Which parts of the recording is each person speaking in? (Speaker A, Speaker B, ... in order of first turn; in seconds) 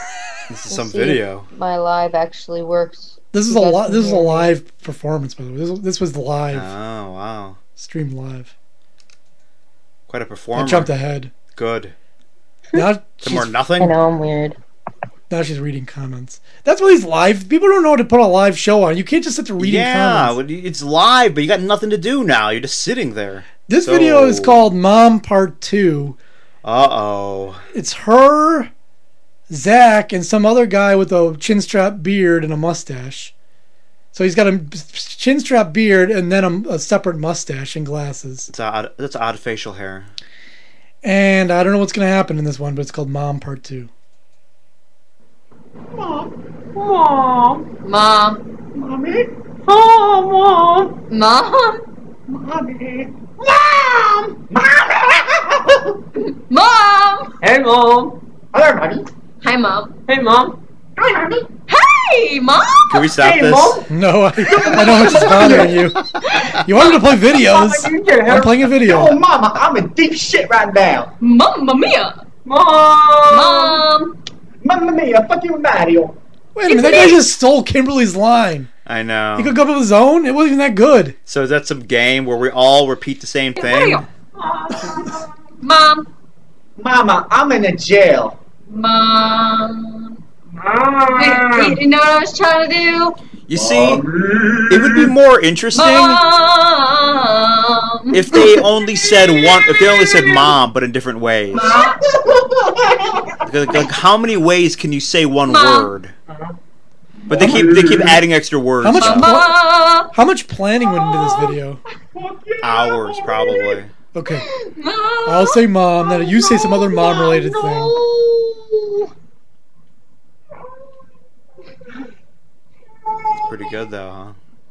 Speaker A: 0.5-1.5, 6.5-7.6, 10.1-10.9, 11.6-11.9, 13.2-13.9, 19.6-24.7, 26.6-27.6, 38.5-40.1, 62.9-63.8, 78.9-79.5, 81.3-84.0, 93.5-94.0, 94.7-96.2, 98.1-101.8, 103.5-106.1, 107.3-109.4, 112.6-113.9, 123.5-124.4
Speaker B: 0.7-4.5, 13.8-14.6
Speaker C: 3.3-6.7, 7.8-8.5, 10.5-11.3, 12.7-13.5, 15.3-20.4, 23.7-26.2, 27.7-28.7, 29.5-33.3, 34.1-38.5, 41.0-43.9, 63.9-66.0, 66.6-69.2, 76.5-78.7, 79.4-81.2, 108.8-109.5, 110.1-111.8, 114.1-114.5, 115.3-118.0
Speaker D: 46.0-47.7, 48.7-51.0, 52.3-56.0, 57.4-59.1, 60.1-61.5, 63.2-63.9, 64.5-65.8, 67.3-71.1, 72.5-73.8, 74.6-76.2, 84.4-85.2, 86.8-88.4, 90.6-91.8, 93.5-95.1, 99.9-100.5, 101.6-103.9, 107.3-108.2, 111.0-111.5, 112.1-113.8, 116.5-118.9
Speaker E: 47.8-48.4, 51.1-51.8, 56.5-57.3, 59.4-59.9, 61.7-63.1, 66.3-66.9, 71.2-72.2, 73.2-74.2, 76.7-77.2, 83.6-84.1, 84.8-85.1, 85.6-86.1, 88.7-90.2, 91.2-93.2, 95.7-98.7, 101.5-102.0, 105.5-105.9, 108.9-110.1, 114.3-115.6